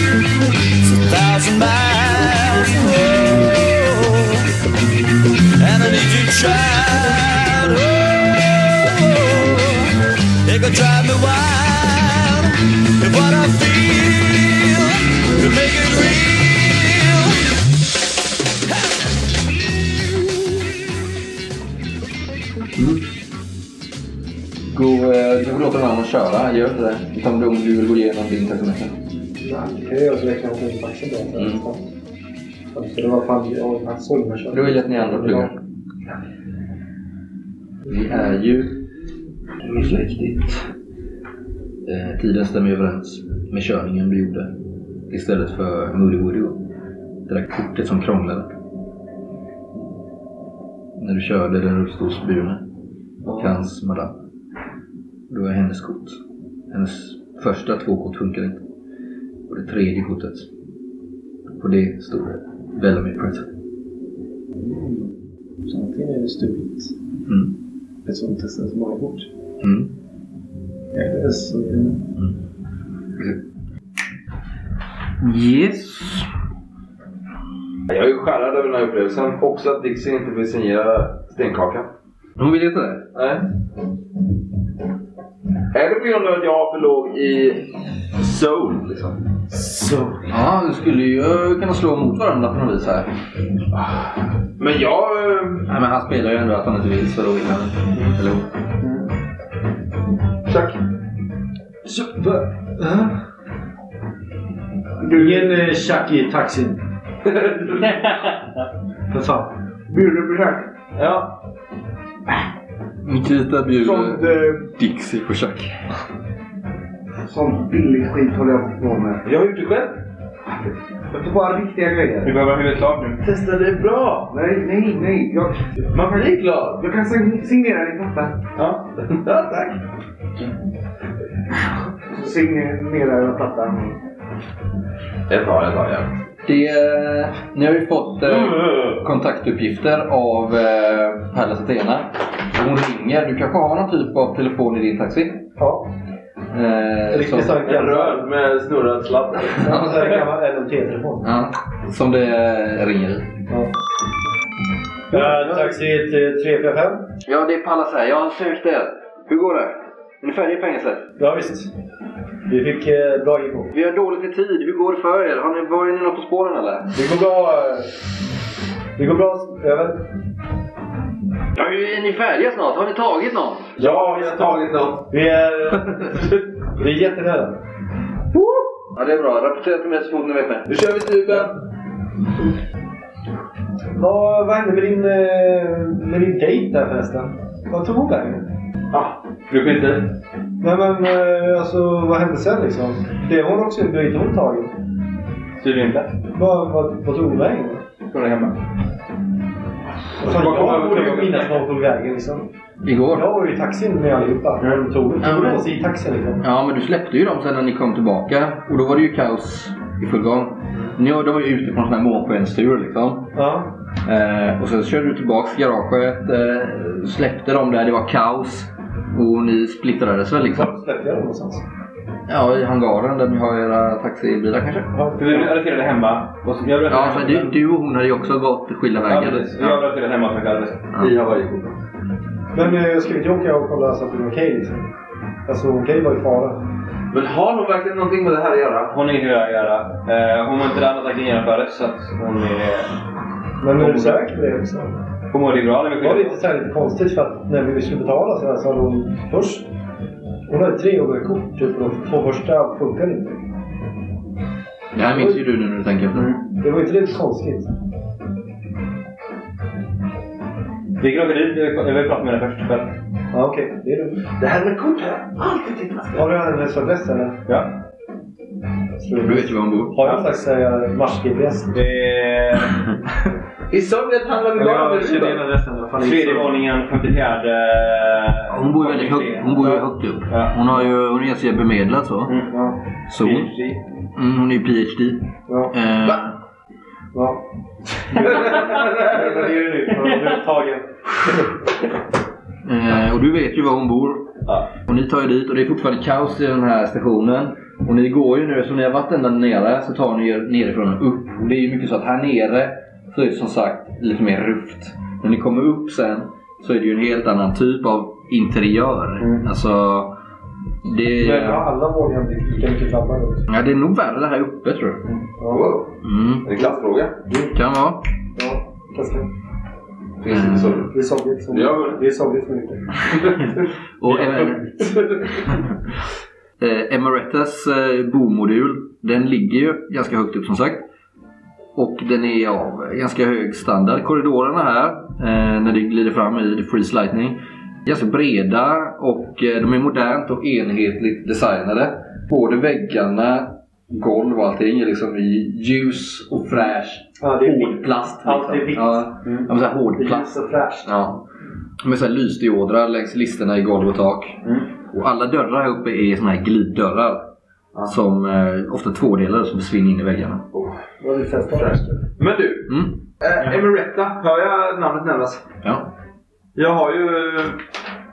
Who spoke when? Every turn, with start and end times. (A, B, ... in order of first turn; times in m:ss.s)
0:00.8-0:04.5 A
0:05.6-0:17.5 A
0:22.7-0:23.0 B
0:24.7-0:28.9 B
0:29.4-0:31.8 C
0:32.7-0:35.5 C
0:34.5-0:35.6 B
0:37.9-0:38.8 B
0:39.6-0:40.7 B
0:41.8-0:44.5 B
0:45.1-0:46.6 B
0:47.3-0:48.6 B
0:51.0-0:52.6 B
0:53.2-0:54.1 B
0:55.3-0:58.6 B
0:59.5-1:00.5 B
1:01.5-1:03.5 B
1:04.6-1:05.1 C
1:05.7-1:06.9 C
1:07.2-1:07.5 B
1:08.0-1:09.3 C
1:09.6-1:09.9 B
1:10.9-1:12.0 C
1:15.2-1:16.3 B
1:17.9-1:21.9 D
1:22.4-1:23.1 B
1:23.1-1:23.4 D
1:25.7-1:29.2 D
1:29.5-1:30.2 E
1:30.3-1:33.1 B
1:33.7-1:35.7 D
1:35.7-1:38.5 B
1:40.4-1:40.8 D
1:42.8-1:43.1 C
1:45.0-1:45.7 E
1:45.1-1:46.8 C
1:47.2-1:48.1 D
1:47.8-1:48.5 F
1:49.1-1:49.5 C
1:49.9-1:50.7 E
1:50.9-1:51.4 D
1:53.0-1:55.8 B
1:53.8-1:54.6 E
1:57.2-1:59.2 E
1:59.2-2:00.0 D
2:01.1-2:02.4 E
2:02.2-2:03.2 F
2:03.2-2:08.4 E
2:03.3-2:03.8 D
2:05.9-2:06.8 D
2:08.6-2:09.8 D
2:12.1-2:14.0 E
2:15.3-2:16.2 D
2:16.4-2:25.4 B
2:18.4-2:19.0 D
2:25.6-2:25.9 C
2:26.5-2:27.6 B
2:27.1-2:28.3 C
2:27.6-2:30.0 D
2:29.6-2:31.3 C
2:29.7-2:30.1 B
2:31.2-2:33.3 B
2:35.1-2:35.8 B
2:35.1-2:37.0 C
2:37.2-2:41.1 B
2:41.2-2:41.7 C
2:42.4-2:43.7 C
2:43.7-2:46.9 B
2:46.9-2:47.9 C
2:49.0-2:50.0 C
2:51.5-2:53.8 B
2:53.8-2:55.1 D
2:53.8-2:57.6 C
2:58.9-3:00.7 B
3:00.7-3:01.6 D
3:03.9-3:08.5 C
3:08.9-3:09.2 D
3:09.5-3:10.1 F
3:10.6-3:14.8 C
3:15.6-3:16.2 F
3:16.3-3:17.8 C
3:18.1-3:18.6 F
3:20.2-3:22.5 C
3:20.2-3:21.6 D
3:22.8-3:23.3 B
3:23.1-3:26.4 C
3:25.2-3:25.7 B
3:26.4-3:33.3 B
3:33.3-3:33.7 C
3:33.9-3:40.7 B
3:40.5-3:41.6 C
3:42.3-3:44.9 B
3:44.9-3:45.6 C
3:45.2-3:47.6 F
3:46.9-3:49.8 B
3:49.1-3:50.9 F
3:51.0-3:51.8 D
3:52.5-3:54.9 C
3:55.4-3:56.6 C
3:57.1-3:58.9 D
3:58.9-4:02.9 F
4:03.6-4:05.0 C
4:03.8-4:04.2 F
4:05.3-4:06.4 F
4:06.0-4:09.7 C
4:10.5-4:13.4 C
4:14.9-4:16.3 B
4:16.1-4:16.4 F
4:16.6-4:17.7 C
4:21.0-4:22.9 F
4:23.3-4:24.2 C
4:24.4-4:26.3 D
4:26.1-4:27.4 C
4:27.5-4:27.7 F
4:29.0-4:31.8 C
4:29.2-4:30.0 B
4:31.7-4:32.8 F
4:33.7-4:35.4 D
4:34.6-4:36.5 C
4:36.0-4:40.6 F
4:38.5-4:42.3 B
4:42.3-4:42.5 F
4:42.5-4:42.8 C
4:43.1-4:43.8 F
4:43.1-4:43.5 B
4:44.1-4:46.4 B
4:45.5-4:45.7 C
4:47.1-4:47.4 C
4:48.1-4:50.9 C
4:48.1-4:48.9 F
4:48.1-4:49.5 D
4:50.0-4:50.3 F
4:52.6-5:10.1 B
5:09.2-5:09.5 F
5:10.8-5:11.7 B
5:11.2-5:13.4 C
5:13.5-5:15.0 B
5:15.4-5:15.7 C
5:15.5-5:17.2 D
5:16.0-5:16.6 B
5:17.5-5:18.0 B
5:18.4-5:19.3 C
5:20.2-5:20.9 D
5:20.3-5:20.9 B
5:20.9-5:23.3 C
5:21.5-5:22.0 D
5:23.2-5:23.5 D
5:24.0-5:24.7 B
5:24.1-5:25.4 D
5:26.6-5:30.8 B
5:31.7-5:50.3 B
5:47.2-5:49.0 C
5:50.0-5:50.9 C
5:50.8-5:51.2 B
5:51.8-5:57.2 B
5:57.8-6:00.5 B
6:00.5-6:00.8 D
6:01.0-6:02.0 C
6:01.5-6:05.4 D
6:02.7-6:03.0 B
6:05.6-6:05.9 B
6:06.5-6:07.6 D